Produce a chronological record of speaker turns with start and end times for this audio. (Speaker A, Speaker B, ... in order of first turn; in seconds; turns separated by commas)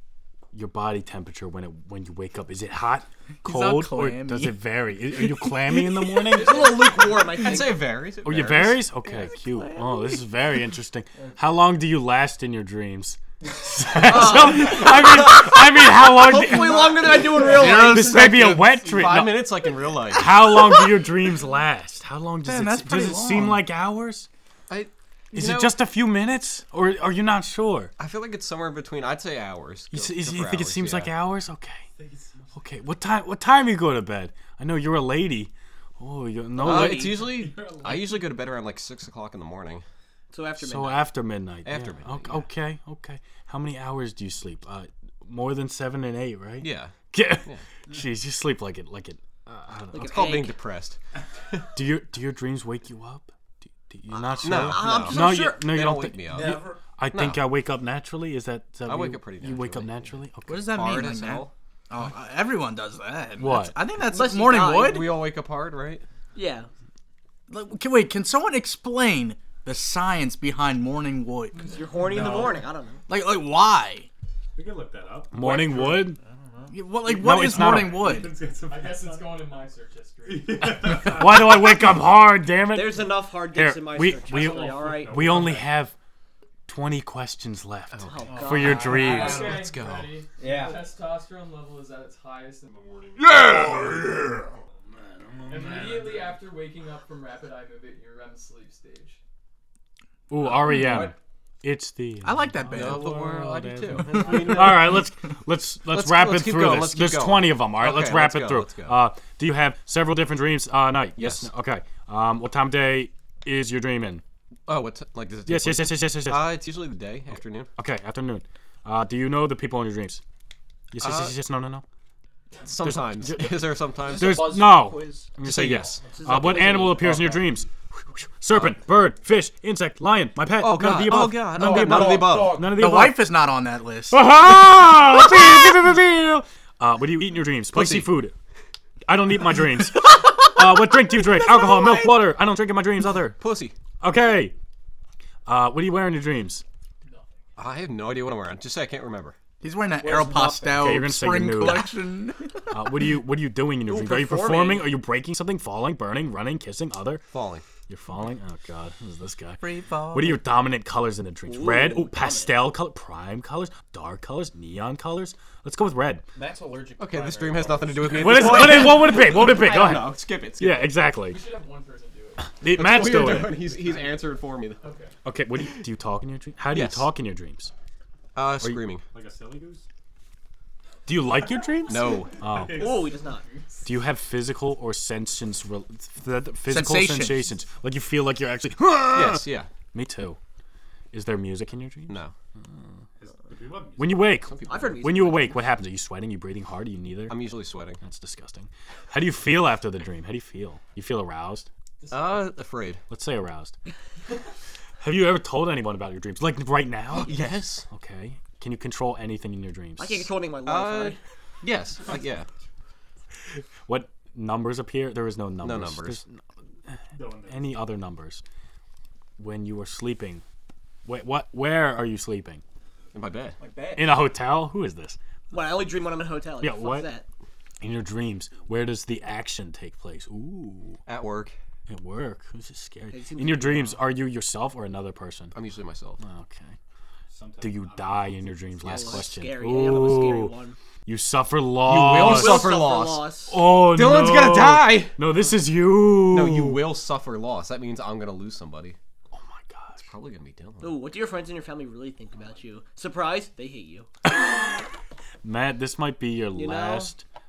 Speaker A: 0.5-6.8, Speaker B: 3.4-6.4, Speaker C: 6.3-7.8, Speaker D: 7.4-8.9, Speaker A: 8.2-19.6, Speaker B: 9.1-9.9, Speaker C: 14.1-18.1, Speaker E: 16.6-17.4, Speaker B: 17.3-18.9, Speaker D: 18.8-20.5, Speaker A: 20.1-24.3, Speaker B: 22.4-23.7, Speaker D: 24.7-25.8, Speaker A: 25.3-27.9, Speaker D: 28.0-31.1, Speaker A: 29.9-31.9, Speaker F: 31.9-32.8, Speaker A: 32.5-37.2, Speaker D: 36.6-39.9, Speaker F: 36.7-38.4, Speaker C: 40.3-41.0, Speaker A: 40.6-50.2, Speaker D: 41.6-42.5, Speaker D: 46.6-47.6, Speaker C: 49.9-50.5, Speaker D: 49.9-51.0, Speaker A: 51.7-53.3, Speaker A: 53.9-61.1, Speaker C: 54.2-55.7, Speaker D: 54.4-57.5, Speaker E: 56.3-56.8, Speaker D: 58.9-60.1, Speaker B: 60.5-65.2, Speaker D: 60.6-61.5, Speaker A: 63.4-63.8, Speaker C: 64.1-65.1, Speaker D: 64.7-66.0, Speaker C: 66.3-66.7, Speaker B: 67.5-72.3, Speaker C: 71.5-73.0, Speaker F: 72.0-72.6, Speaker B: 73.1-74.1, Speaker F: 74.6-76.1, Speaker A: 75.3-76.2, Speaker E: 76.2-76.8, Speaker B: 76.7-78.3, Speaker A: 77.0-78.1, Speaker F: 77.4-79.4, Speaker G: 78.7-80.7, Speaker F: 80.2-81.8, Speaker A: 80.9-85.9, Speaker C: 82.7-85.3, Speaker F: 84.2-85.8, Speaker A: 86.7-89.6, Speaker D: 87.9-90.2, Speaker C: 88.0-89.1, Speaker E: 88.3-89.6, Speaker G: 89.0-92.7, Speaker E: 90.4-90.9, Speaker F: 92.7-96.4, Speaker B: 93.3-94.3, Speaker G: 95.5-99.2, Speaker A: 100.3-114.2, Speaker E: 100.4-101.1, Speaker B: 102.2-103.3, Speaker D: 102.7-105.0, Speaker D: 105.9-109.0, Speaker D: 111.2-111.5, Speaker D: 114.7-117.7, Speaker A: 115.5-116.6, Speaker A: 117.8-120.2, Speaker A: 120.9-121.8, Speaker D: 121.0-121.3, Speaker D: 122.6-124.5, Speaker A: 122.8-133.2, Speaker E: 124.0-125.4, Speaker D: 125.4-126.1, Speaker E: 126.1-127.4, Speaker B: 126.2-126.9, Speaker D: 128.5-128.9, Speaker D: 130.6-132.6, Speaker E: 131.5-132.8, Speaker B: 132.7-134.9, Speaker A: 134.1-138.3, Speaker D: 137.7-138.2, Speaker A: 139.1-143.4, Speaker B: 141.3-142.1, Speaker D: 143.4-143.8, Speaker A: 144.0-144.5, Speaker A: 145.5-146.6, Speaker G: 147.0-147.4, Speaker D: 147.6-149.3, Speaker B: 149.6-152.7, Speaker E: 150.0-151.0, Speaker A: 150.7-151.9, Speaker A: 152.7-157.2, Speaker E: 154.3-154.8, Speaker D: 157.3-157.6, Speaker A: 157.9-166.2, Speaker B: 159.6-160.5, Speaker D: 161.5-162.5, Speaker E: 166.3-168.8, Speaker D: 167.0-171.0, Speaker A: 168.1-171.4, Speaker G: 171.3-172.6, Speaker A: 172.6-173.6, Speaker D: 172.6-174.8, Speaker G: 174.8-175.2, Speaker A: 175.2-177.7, Speaker D: 176.7-177.1, Speaker D: 178.3-179.0, Speaker F: 179.1-179.8, Speaker A: 181.1-183.0, Speaker D: 181.8-182.4, Speaker F: 182.0-183.4, Speaker C: 182.8-183.4, Speaker G: 183.4-183.8, Speaker A: 183.8-190.4, Speaker B: 186.7-187.5, Speaker D: 189.0-189.7, Speaker A: 191.1-192.2, Speaker D: 192.1-192.3, Speaker F: 193.2-194.4, Speaker A: 194.0-201.7, Speaker D: 194.5-195.1, Speaker C: 194.7-195.7, Speaker D: 197.3-198.0, Speaker G: 202.0-202.5, Speaker D: 202.1-203.0, Speaker A: 203.1-203.8, Speaker A: 205.0-210.3, Speaker D: 207.1-207.8, Speaker C: 210.0-211.2, Speaker D: 210.6-212.5, Speaker A: 213.9-216.2, Speaker D: 215.6-216.2, Speaker F: 217.1-217.9, Speaker A: 217.5-218.4, Speaker A: 219.4-220.4, Speaker A: 221.0-222.6, Speaker D: 223.1-223.6, Speaker E: 223.6-224.2, Speaker A: 224.0-225.2, Speaker C: 225.5-227.2, Speaker A: 226.6-227.1, Speaker A: 227.8-231.0, Speaker D: 231.1-231.5, Speaker A: 231.9-235.6, Speaker C: 233.1-234.0, Speaker D: 235.5-236.2, Speaker A: 236.2-236.8, Speaker F: 237.3-239.1, Speaker A: 237.6-240.5, Speaker C: 238.8-240.8, Speaker A: 241.0-242.7, Speaker D: 241.8-245.2, Speaker C: 242.2-243.6, Speaker A: 243.5-246.8, Speaker D: 246.3-249.0, Speaker A: 249.3-250.0, Speaker D: 250.0-251.0, Speaker C: 250.8-254.1, Speaker A: 255.4-257.2, Speaker C: 256.5-257.1